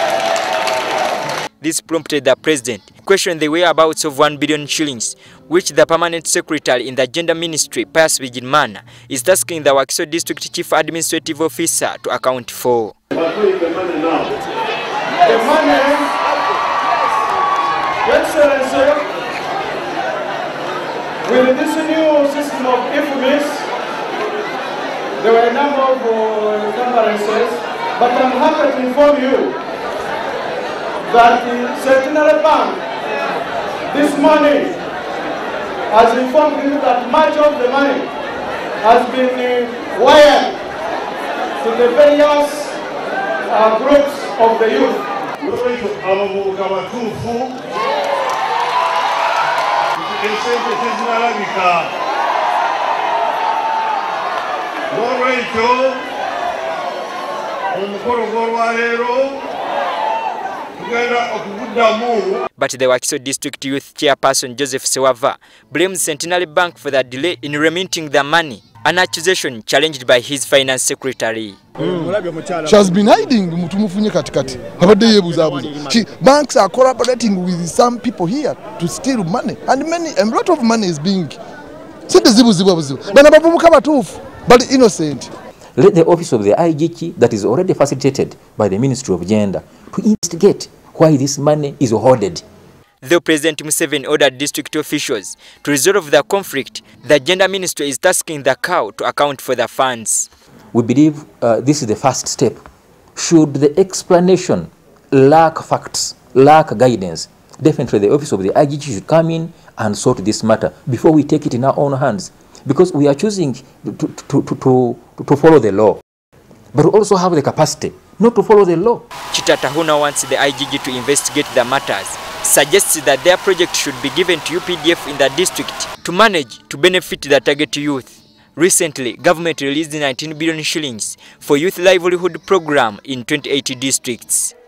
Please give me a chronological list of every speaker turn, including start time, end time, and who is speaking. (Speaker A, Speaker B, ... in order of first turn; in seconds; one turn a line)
Speaker A: 1.6-12.9
Speaker B: 13.1-14.3
Speaker C: 15.2-16.1
Speaker C: 18.0-19.1
Speaker C: 21.2-23.7
Speaker C: 25.2-29.6
Speaker C: 31.0-32.8
Speaker C: 33.9-34.8
Speaker C: 35.9-38.1
Speaker C: 38.8-40.6
Speaker C: 41.6-42.8
Speaker C: 43.5-45.0
Speaker B: 45.4-47.6
Speaker B: 50.0-51.9
Speaker B: 54.9-56.0
Speaker B: 57.7-59.4
Speaker B: 60.8-62.4
Speaker A: 62.5-71.6
Speaker D: 71.8-81.4
Speaker D: 82.1-85.3
Speaker E: 85.8-92.4
Speaker A: 93.0-100.3
Speaker E: 100.7-102.6
Speaker E: 103.2-116.0
Speaker E: 116.7-119.0
Speaker A: 119.3-134.5